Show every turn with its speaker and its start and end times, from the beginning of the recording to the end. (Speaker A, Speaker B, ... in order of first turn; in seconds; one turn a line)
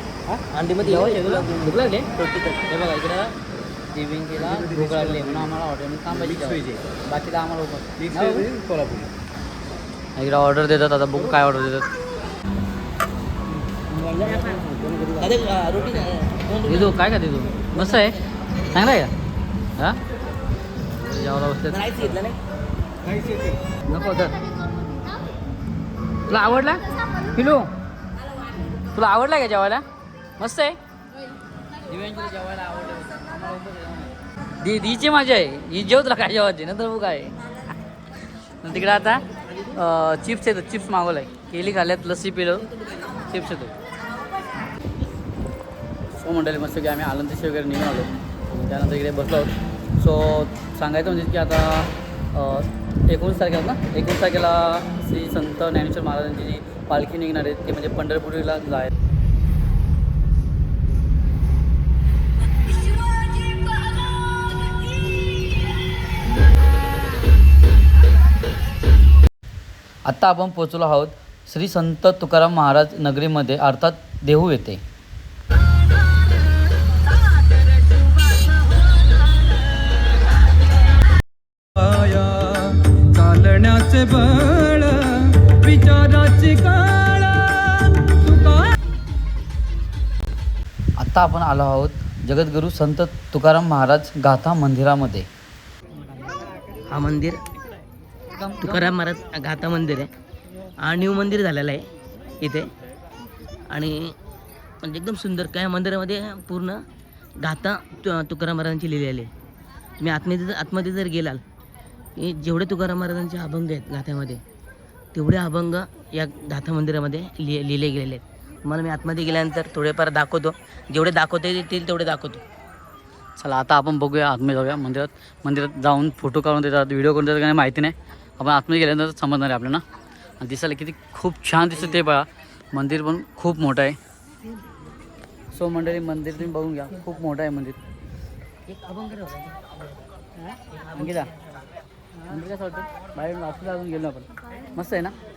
Speaker A: 0.3-2.7
Speaker B: 0.8-2.1
Speaker B: 2.7-3.3
Speaker B: 3.9-8.5
Speaker A: 6.3-6.8
Speaker A: 8.1-9.1
Speaker B: 10.2-11.9
Speaker A: 14.0-16.9
Speaker B: 16.6-18.2
Speaker B: 18.7-19.1
Speaker B: 21.0-22.2
Speaker A: 21.7-22.4
Speaker B: 23.9-24.4
Speaker B: 26.3-27.7
Speaker B: 28.9-29.8
Speaker B: 30.4-30.8
Speaker B: 31.9-37.4
Speaker B: 38.6-42.7
Speaker B: 43.2-43.7
Speaker B: 46.1-58.9
Speaker B: 70.1-74.8
Speaker C: 81.8-88.2
Speaker B: 91.0-95.3
Speaker A: 96.9-97.4
Speaker B: 98.3-98.9
Speaker A: 98.6-100.1
Speaker A: 100.8-101.8
Speaker A: 102.4-102.7
Speaker A: 103.7-104.1
Speaker A: 104.8-106.8
Speaker A: 107.4-109.3
Speaker A: 110.0-111.4
Speaker A: 112.2-114.4
Speaker A: 115.1-122.4
Speaker B: 123.4-129.8
Speaker B: 130.4-134.0
Speaker B: 135.5-137.8
Speaker A: 138.7-139.6
Speaker A: 140.5-141.3
Speaker B: 141.0-141.3
Speaker B: 142.3-145.2